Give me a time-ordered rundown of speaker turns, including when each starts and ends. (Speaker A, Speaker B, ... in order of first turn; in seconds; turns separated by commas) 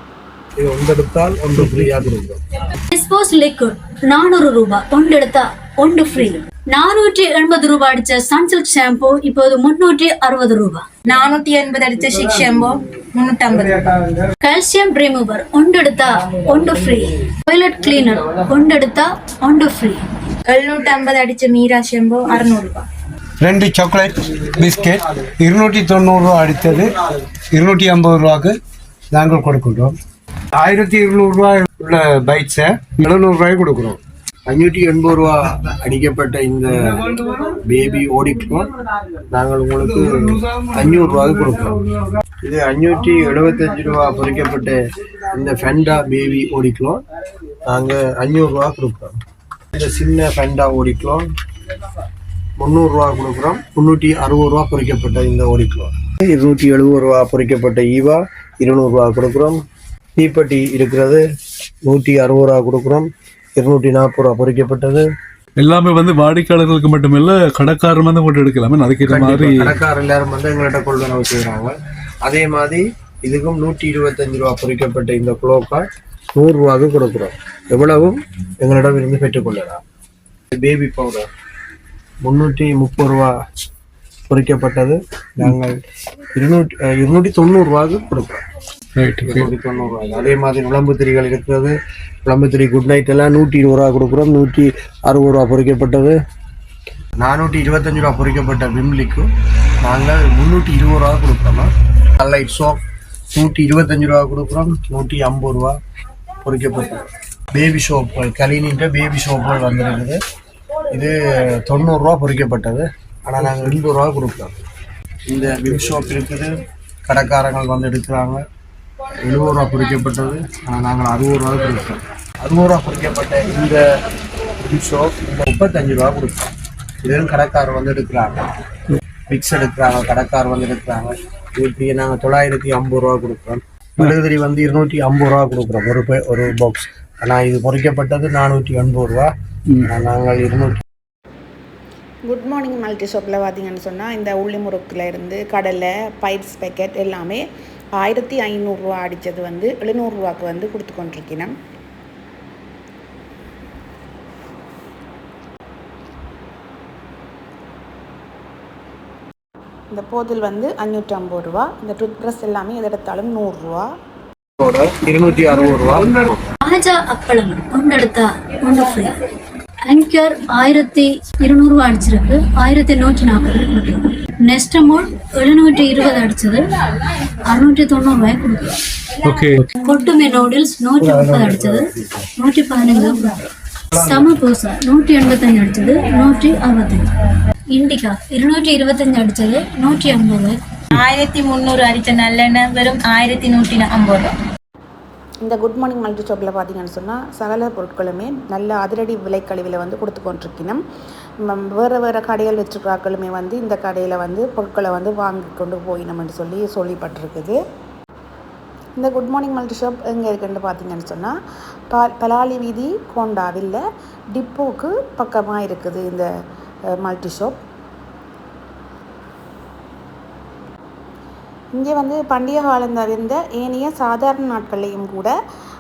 Speaker A: 0.6-2.4, Speaker B: 2.9-10.9, Speaker C: 11.1-14.1, Speaker B: 14.4-20.0, Speaker C: 20.5-22.9, Speaker D: 23.4-28.6, Speaker D: 29.1-30.0, Speaker D: 30.6-34.0, Speaker A: 34.5-36.8, Speaker A: 37.4-38.7, Speaker A: 39.3-41.8, Speaker A: 42.4-44.8, Speaker A: 45.3-47.0, Speaker A: 47.6-49.1, Speaker A: 49.8-51.3, Speaker A: 52.6-59.6, Speaker A: 60.2-61.2, Speaker A: 61.9-65.1, Speaker E: 65.6-69.7, Speaker A: 69.1-79.8, Speaker A: 80.5-81.3, Speaker A: 82.2-83.3, Speaker A: 84.3-85.8, Speaker A: 86.3-88.4, Speaker E: 89.0-89.5, Speaker A: 89.2-91.8, Speaker A: 92.3-96.2, Speaker A: 97.2-99.3, Speaker A: 99.8-102.8, Speaker A: 103.3-105.8, Speaker A: 106.4-110.2, Speaker A: 110.9-114.6, Speaker A: 115.3-118.4, Speaker A: 119.2-123.8, Speaker A: 124.6-126.5, Speaker A: 127.0-128.5, Speaker A: 129.3-140.8, Speaker F: 142.3-147.4, Speaker F: 148.0-151.5, Speaker F: 159.9-163.9, Speaker A: 164.6-166.4, Speaker B: 166.6-169.2, Speaker B: 169.9-176.7, Speaker B: 177.3-178.8, Speaker E: 179.2-179.7, Speaker B: 179.8-187.1, Speaker B: 187.7-190.6, Speaker C: 190.9-194.3, Speaker F: 195.4-200.8, Speaker F: 201.4-207.6, Speaker F: 209.0-211.3, Speaker F: 211.9-213.8, Speaker F: 214.3-216.3, Speaker F: 217.0-217.6, Speaker F: 221.8-225.3